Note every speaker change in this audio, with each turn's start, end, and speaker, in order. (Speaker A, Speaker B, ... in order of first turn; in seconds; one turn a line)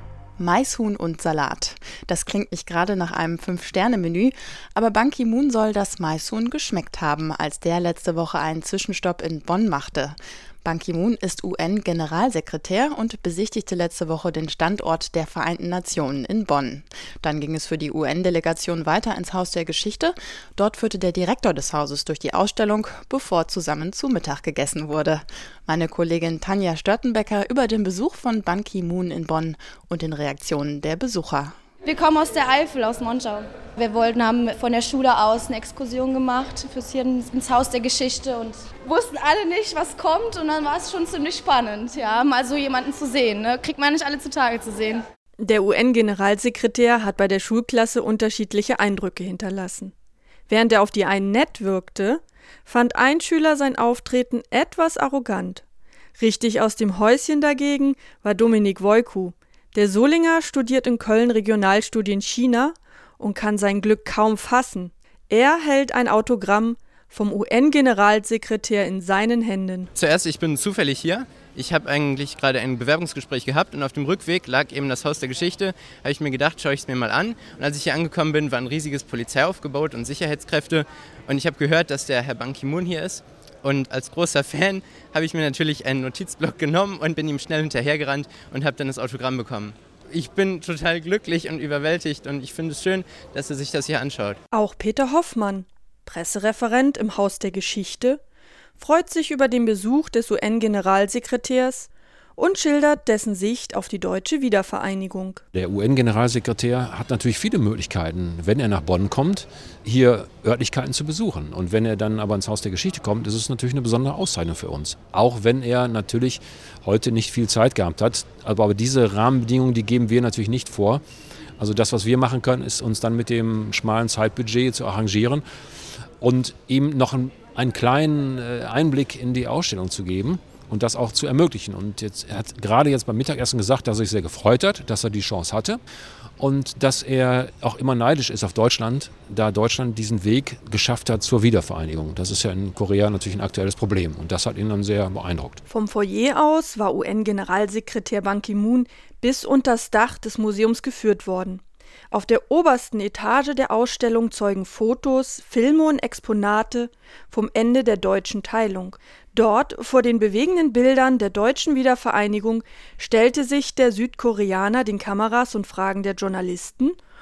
Speaker A: 0.4-31.5
Speaker B: 31.8-45.0
Speaker C: 45.4-49.9
Speaker C: 50.5-55.6
Speaker C: 56.2-69.9
Speaker D: 69.9-94.4
Speaker C: 94.5-98.2
Speaker C: 98.8-105.4
Speaker E: 105.5-121.0
Speaker E: 121.6-125.4
Speaker E: 126.2-135.8
Speaker E: 136.4-145.6
Speaker C: 145.7-167.0